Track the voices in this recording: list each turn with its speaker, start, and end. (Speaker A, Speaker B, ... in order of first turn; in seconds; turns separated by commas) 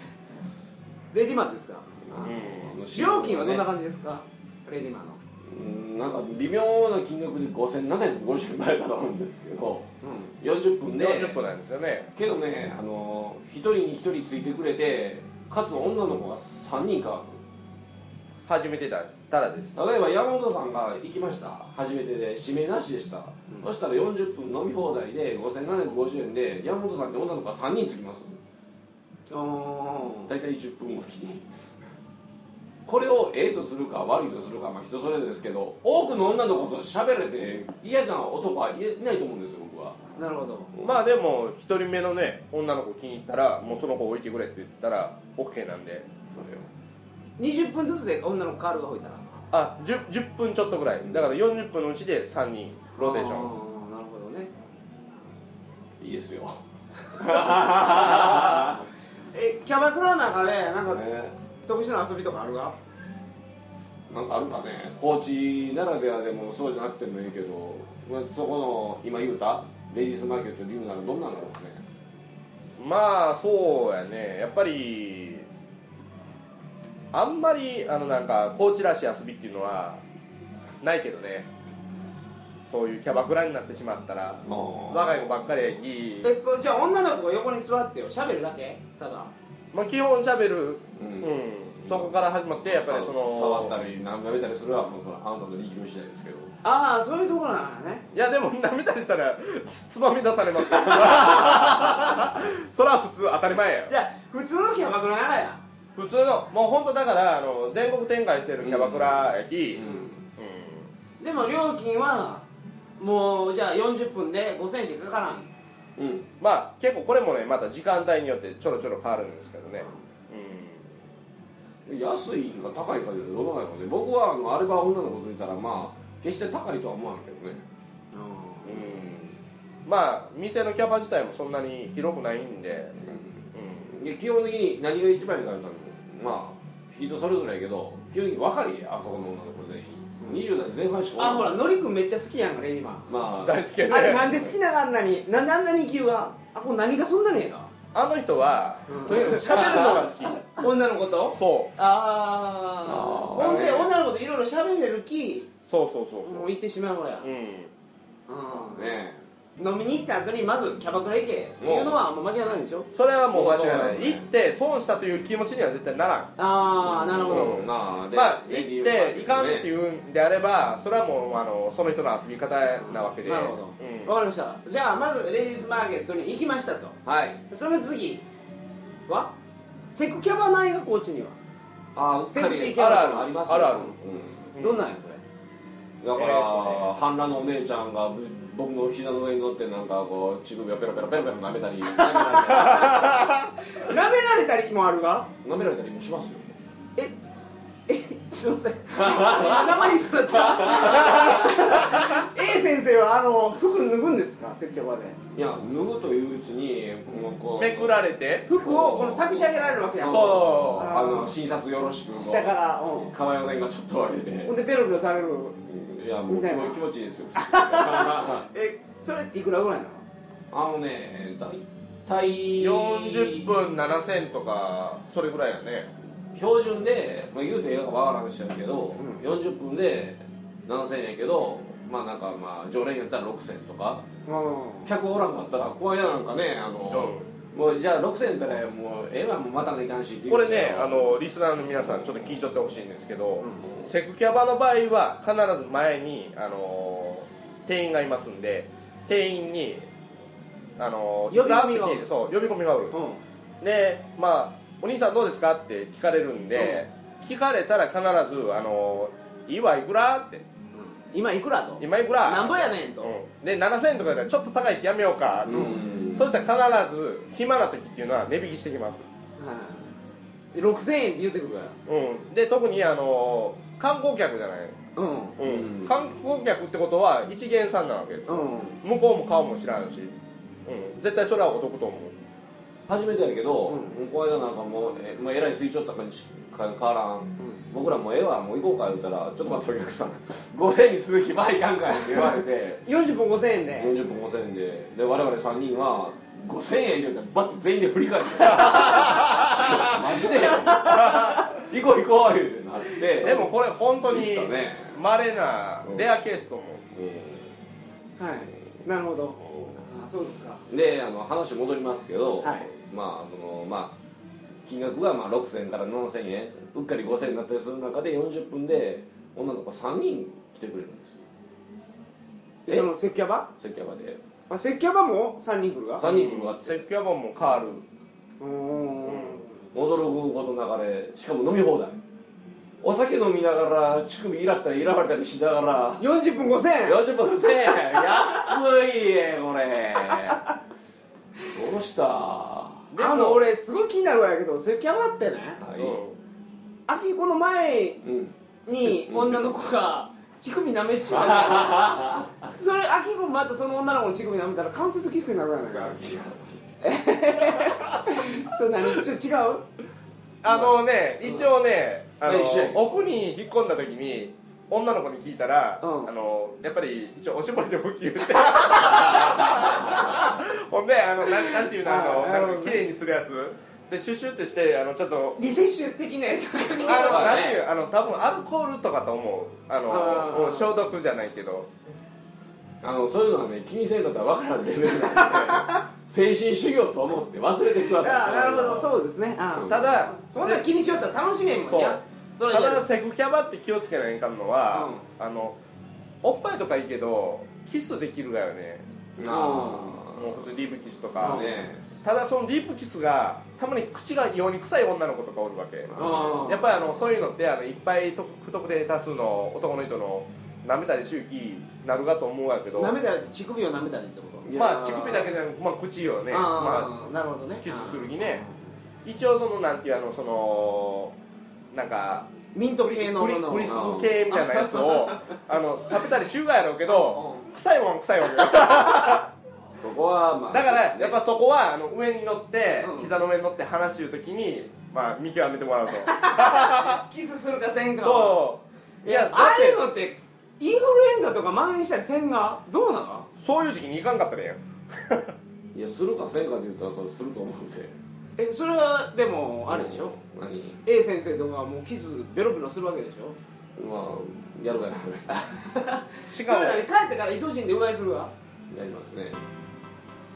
Speaker A: 1.1-2.3, Speaker B: 2.2-2.8, Speaker C: 2.2-3.7, Speaker A: 2.9-5.2, Speaker C: 5.5-9.9, Speaker A: 10.0-10.3, Speaker C: 10.4-11.4, Speaker B: 11.0-12.1, Speaker C: 12.2-17.4, Speaker B: 18.5-19.8, Speaker C: 19.8-28.4, Speaker A: 29.3-30.3, Speaker C: 30.3-31.5, Speaker C: 32.9-40.0, Speaker A: 40.2-40.7, Speaker B: 40.8-46.1, Speaker C: 46.3-46.7, Speaker A: 47.4-49.3, Speaker B: 49.5-53.5, Speaker C: 51.0-51.3, Speaker A: 53.0-54.5, Speaker C: 56.0-58.9, Speaker A: 57.3-58.8, Speaker A: 59.3-61.0, Speaker C: 60.9-61.4, Speaker A: 61.6-62.8, Speaker C: 64.1-71.8, Speaker B: 72.8-75.5, Speaker B: 77.1-80.0, Speaker B: 80.8-81.5, Speaker B: 82.7-86.3, Speaker C: 84.5-85.3, Speaker A: 86.2-89.3, Speaker B: 89.7-93.8, Speaker C: 91.0-96.5, Speaker A: 96.6-98.1, Speaker B: 98.1-103.9, Speaker A: 103.9-105.6, Speaker B: 106.0-109.8, Speaker C: 108.6-110.2, Speaker A: 109.8-110.1, Speaker B: 110.4-110.9, Speaker A: 111.2-112.5, Speaker A: 113.0-115.5, Speaker C: 116.0-116.3, Speaker B: 116.4-120.9, Speaker C: 121.9-127.6, Speaker A: 128.1-128.8, Speaker B: 128.7-133.0, Speaker C: 133.0-141.6, Speaker B: 133.5-133.9, Speaker A: 141.2-143.1, Speaker C: 143.1-143.7, Speaker B: 143.4-144.5, Speaker A: 143.9-147.7, Speaker B: 147.9-150.5, Speaker A: 148.9-155.5, Speaker B: 151.3-151.7, Speaker C: 152.8-153.9, Speaker B: 155.7-156.5, Speaker A: 156.2-157.3, Speaker B: 157.2-157.7, Speaker A: 158.3-159.0, Speaker C: 158.5-159.2, Speaker A: 159.6-162.9, Speaker C: 161.6-162.0, Speaker B: 162.9-166.3, Speaker C: 163.3-164.3, Speaker A: 166.4-167.6, Speaker C: 166.8-169.7, Speaker B: 167.3-174.1, Speaker A: 172.8-177.0, Speaker C: 177.1-177.4, Speaker A: 177.5-178.2, Speaker A: 179.1-179.3, Speaker A: 179.9-181.4, Speaker C: 182.0-184.5, Speaker A: 182.3-184.0, Speaker B: 182.7-183.9, Speaker B: 184.5-184.8, Speaker A: 184.6-185.2, Speaker C: 186.0-193.3, Speaker B: 186.2-186.9, Speaker A: 192.0-195.3, Speaker C: 195.4-196.5, Speaker A: 197.9-205.2, Speaker C: 198.9-201.7, Speaker C: 205.3-208.0, Speaker B: 207.6-208.8, Speaker A: 208.5-211.3, Speaker C: 208.6-212.5, Speaker B: 210.0-210.9, Speaker A: 212.2-213.2, Speaker C: 213.1-214.5, Speaker A: 214.4-215.6, Speaker C: 215.7-218.4, Speaker A: 216.3-216.8, Speaker A: 217.4-220.1, Speaker C: 220.5-223.5, Speaker B: 222.6-225.9, Speaker C: 226.3-234.1, Speaker A: 229.0-229.2, Speaker A: 234.3-234.9, Speaker C: 234.8-241.2, Speaker B: 236.9-237.3, Speaker B: 240.3-249.9, Speaker C: 241.8-242.2, Speaker C: 243.6-243.9, Speaker B: 250.8-252.9, Speaker A: 251.3-252.0, Speaker A: 252.9-253.2, Speaker B: 253.6-260.4, Speaker A: 256.6-256.8, Speaker A: 260.7-263.1, Speaker B: 261.8-269.1, Speaker C: 265.5-266.3, Speaker A: 265.5-265.8, Speaker A: 269.4-269.9, Speaker A: 270.5-271.8, Speaker B: 271.9-274.8, Speaker A: 275.0-275.4, Speaker B: 275.4-280.1, Speaker C: 275.4-275.9, Speaker A: 278.3-278.8, Speaker B: 280.7-282.1, Speaker C: 282.9-292.8, Speaker A: 283.7-284.0, Speaker A: 292.8-293.9, Speaker C: 293.8-305.0, Speaker B: 298.9-299.7, Speaker A: 300.4-300.9, Speaker B: 300.9-301.5, Speaker B: 303.2-306.9, Speaker C: 305.8-306.1, Speaker C: 306.9-307.5, Speaker A: 308.2-310.6, Speaker C: 310.7-314.0, Speaker A: 312.4-312.7, Speaker C: 314.7-321.2, Speaker A: 322.7-323.5, Speaker C: 323.6-324.2, Speaker A: 324.5-326.1, Speaker C: 326.0-326.8, Speaker B: 326.0-327.9, Speaker A: 328.4-329.5, Speaker B: 329.1-329.4, Speaker C: 329.7-332.0, Speaker C: 332.8-336.0, Speaker A: 336.0-337.0, Speaker C: 336.8-340.4, Speaker A: 337.9-338.3, Speaker C: 341.4-342.9, Speaker B: 342.9-343.5, Speaker A: 343.0-345.6, Speaker C: 345.6-346.0, Speaker B: 345.8-346.2, Speaker A: 346.9-348.0, Speaker C: 348.0-349.5, Speaker A: 348.7-356.1, Speaker C: 351.1-352.3, Speaker C: 355.7-356.6, Speaker A: 356.8-359.7, Speaker B: 360.4-375.5, Speaker C: 362.2-362.9, Speaker A: 365.8-366.1, Speaker A: 371.3-372.8, Speaker A: 375.4-377.5, Speaker B: 376.8-381.7, Speaker C: 377.0-377.6, Speaker A: 379.9-380.7, Speaker C: 382.8-388.9, Speaker A: 385.3-385.6, Speaker A: 387.9-392.8, Speaker C: 389.5-389.9, Speaker B: 389.7-390.7, Speaker B: 391.7-395.6, Speaker A: 394.7-395.1, Speaker B: 396.2-398.9, Speaker C: 399.2-400.5, Speaker A: 399.2-400.0, Speaker B: 400.0-413.0, Speaker C: 401.2-401.8, Speaker A: 401.2-401.6, Speaker C: 405.9-406.5, Speaker A: 406.0-406.8, Speaker A: 412.8-414.5, Speaker C: 414.4-415.4, Speaker B: 414.5-416.9, Speaker A: 416.3-418.6, Speaker B: 417.6-418.4, Speaker B: 419.1-421.1, Speaker B: 421.7-429.3, Speaker A: 422.5-425.4, Speaker C: 423.7-424.2, Speaker A: 426.9-427.5, Speaker C: 429.8-431.2, Speaker B: 430.5-437.0, Speaker A: 432.8-433.1, Speaker A: 436.1-438.4, Speaker B: 438.0-439.8, Speaker A: 439.0-443.3, Speaker B: 443.4-445.4, Speaker C: 445.8-448.0, Speaker A: 448.4-450.2, Speaker C: 449.7-450.8, Speaker A: 450.9-453.4, Speaker C: 453.8-455.4, Speaker A: 455.4-458.3, Speaker B: 456.3-456.9, Speaker C: 458.7-459.4